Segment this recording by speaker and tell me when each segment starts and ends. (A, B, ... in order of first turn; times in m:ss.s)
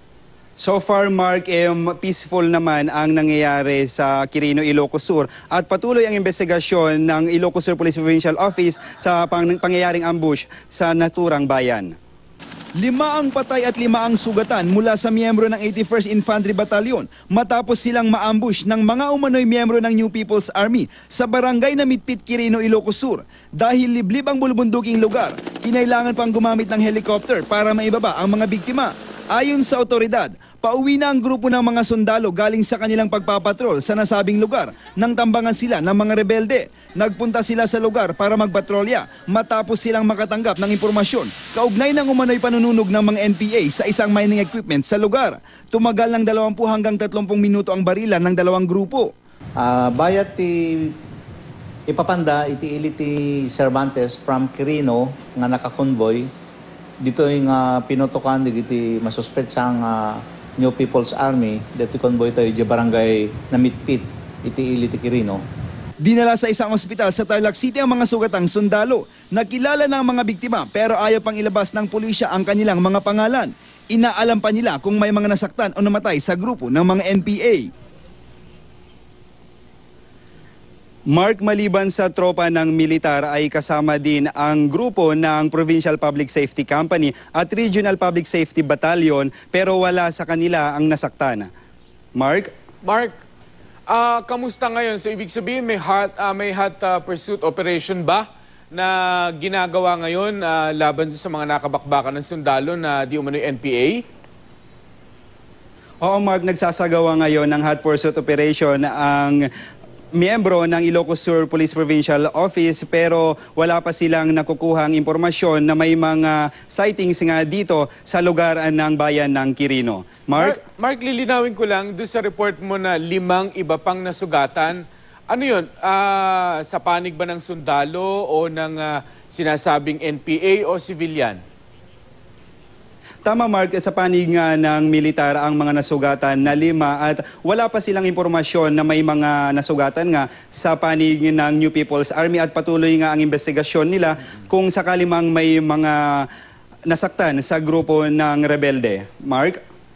0:00.6-0:11.9 A
0:12.8-0:49.1 B
0:49.6-0:51.0 C
0:51.9-0:56.3 C
0:57.0-1:05.4 C
1:06.0-1:17.7 B
1:21.1-1:31.5 A
1:32.2-1:32.5 A
1:32.8-1:33.2 D
1:33.9-1:44.0 D
1:46.0-1:49.4 A
1:50.2-2:00.6 A
2:00.4-2:11.4 D
2:13.2-2:26.3 A
2:26.9-2:29.6 A